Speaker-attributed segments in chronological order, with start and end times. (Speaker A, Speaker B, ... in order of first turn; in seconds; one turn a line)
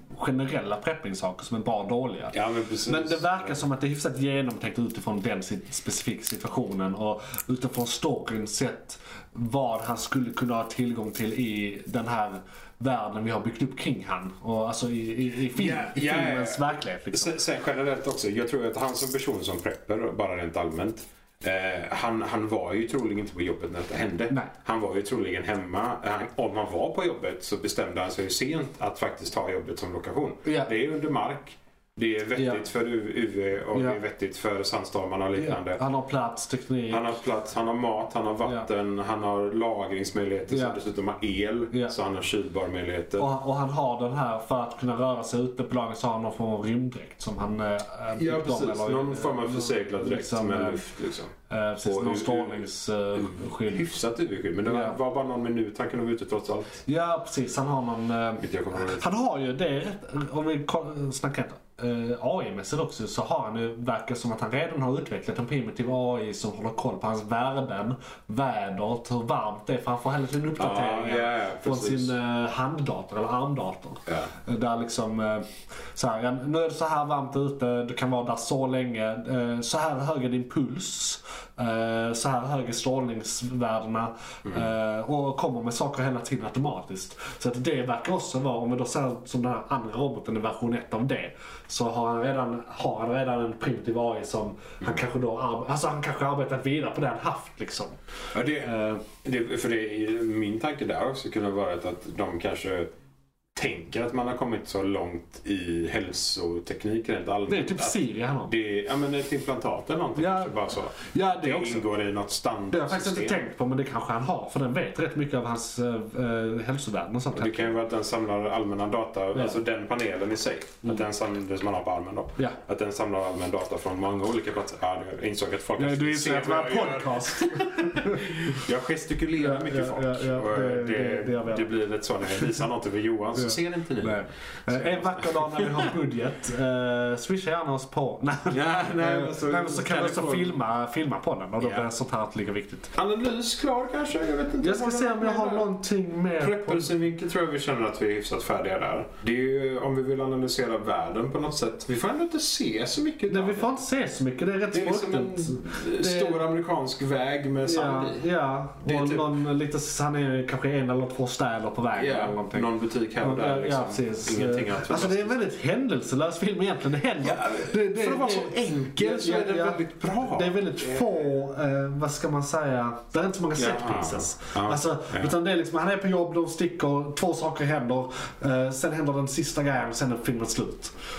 Speaker A: 0.1-2.4
Speaker B: 2.3-3.6
Speaker A: 2.9-17.4
Speaker B: 15.5-35.8
Speaker A: 30.4-30.7
Speaker A: 32.4-32.6
Speaker A: 33.7-34.0
Speaker A: 35.4-37.1
Speaker B: 36.9-43.3
Speaker A: 40.5-40.8
Speaker A: 43.2-50.8
Speaker B: 48.2-51.3
Speaker A: 51.5-53.9
Speaker B: 51.9-52.6
Speaker B: 53.1-56.8
Speaker A: 54.6-55.0
Speaker A: 56.9-98.0
Speaker B: 58.4-59.1
Speaker B: 70.6-72.1
Speaker B: 98.3-102.9
Speaker A: 98.6-99.0
Speaker B: 103.5-113.4
Speaker A: 107.5-108.5
Speaker A: 110.2-111.9
Speaker A: 112.7-117.8
Speaker B: 117.3-135.9
Speaker A: 125.8-128.6
Speaker A: 129.4-131.7
Speaker A: 133.4-142.9
Speaker B: 138.5-140.6
Speaker B: 141.6-141.9
Speaker B: 143.0-145.7
Speaker A: 144.6-146.9
Speaker B: 146.4-153.7
Speaker A: 153.3-156.5
Speaker B: 154.7-158.2
Speaker A: 157.6-162.7
Speaker B: 158.8-159.4
Speaker B: 161.9-165.5
Speaker A: 163.2-180.9
Speaker B: 167.2-171.2
Speaker B: 173.6-175.3